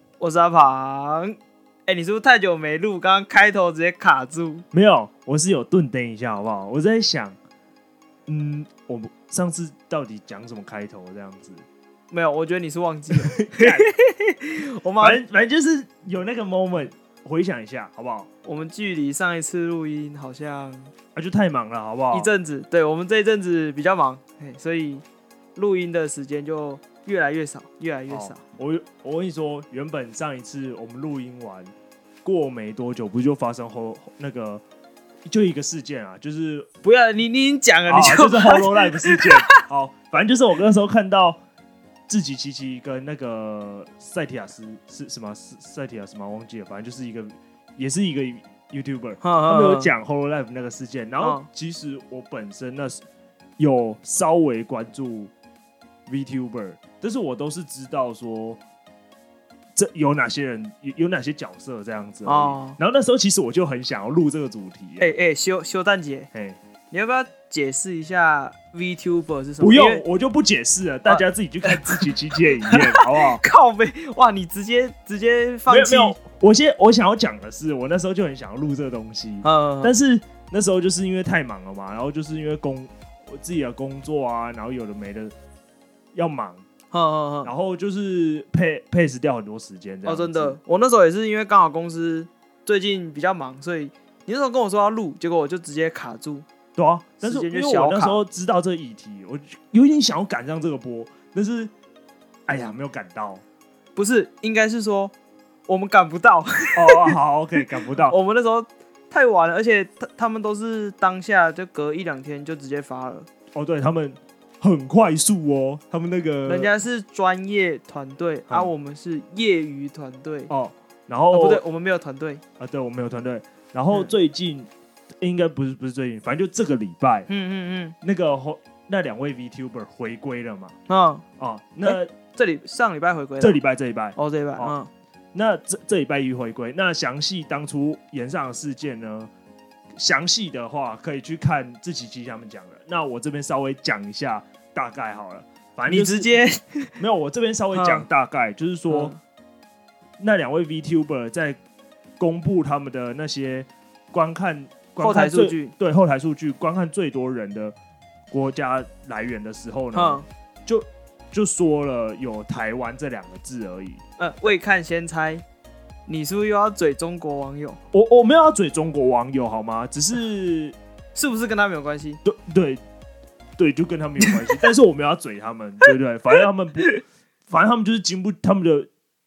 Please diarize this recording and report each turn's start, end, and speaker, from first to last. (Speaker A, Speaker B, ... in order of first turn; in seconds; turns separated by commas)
Speaker A: 0.2-1.4, Speaker A: 1.9-4.7, Speaker B: 4.7-7.4, Speaker B: 8.3-11.7, Speaker A: 12.1-15.2, Speaker B: 13.1-13.9, Speaker B: 15.0-18.3, Speaker A: 18.4-20.9, Speaker B: 21.1-22.3, Speaker A: 22.1-25.0, Speaker A: 25.6-28.4, Speaker B: 28.1-31.7, Speaker B: 32.2-34.6, Speaker B: 35.2-36.7, Speaker A: 36.8-39.5, Speaker B: 37.9-41.4, Speaker B: 42.1-53.0, Speaker A: 49.2-49.9, Speaker A: 51.2-51.5, Speaker B: 53.6-55.3, Speaker B: 56.1-58.6, Speaker B: 59.7-65.1, Speaker A: 62.2-62.8, Speaker A: 65.0-66.3, Speaker B: 66.3-66.6, Speaker A: 66.9-70.0, Speaker B: 69.6-73.4, Speaker A: 71.1-72.1, Speaker A: 72.6-76.2, Speaker B: 75.7-85.3, Speaker A: 79.4-79.9, Speaker B: 86.1-86.6, Speaker A: 86.9-87.5, Speaker B: 87.4-90.6, Speaker A: 90.0-96.5, Speaker B: 96.8-101.7, Speaker A: 97.2-98.2, Speaker B: 102.5-103.4, Speaker A: 104.0-105.1, Speaker A: 105.7-107.2, Speaker B: 106.8-108.2, Speaker A: 108.0-113.3, Speaker B: 113.5-116.7, Speaker A: 116.5-120.5, Speaker B: 120.5-121.6, Speaker A: 121.3-122.4, Speaker B: 122.6-124.7, Speaker B: 125.2-127.3, Speaker A: 127.3-128.0, Speaker B: 128.0-130.7, Speaker A: 130.9-131.2, Speaker B: 131.4-132.1, Speaker A: 131.8-133.6, Speaker B: 133.4-134.7, Speaker A: 134.2-134.9, Speaker B: 135.3-139.3, Speaker B: 140.0-146.3, Speaker A: 145.9-147.0, Speaker B: 147.0-149.1, Speaker A: 147.7-148.1, Speaker A: 148.9-149.2, Speaker B: 150.2-151.6, Speaker B: 152.2-157.8, Speaker A: 155.0-155.7, Speaker B: 158.3-164.0, Speaker A: 159.9-160.2, Speaker A: 164.2-165.4, Speaker A: 166.1-167.8, Speaker B: 167.9-170.8, Speaker A: 171.1-172.2, Speaker B: 172.2-172.8, Speaker B: 173.6-176.9, Speaker B: 177.5-178.9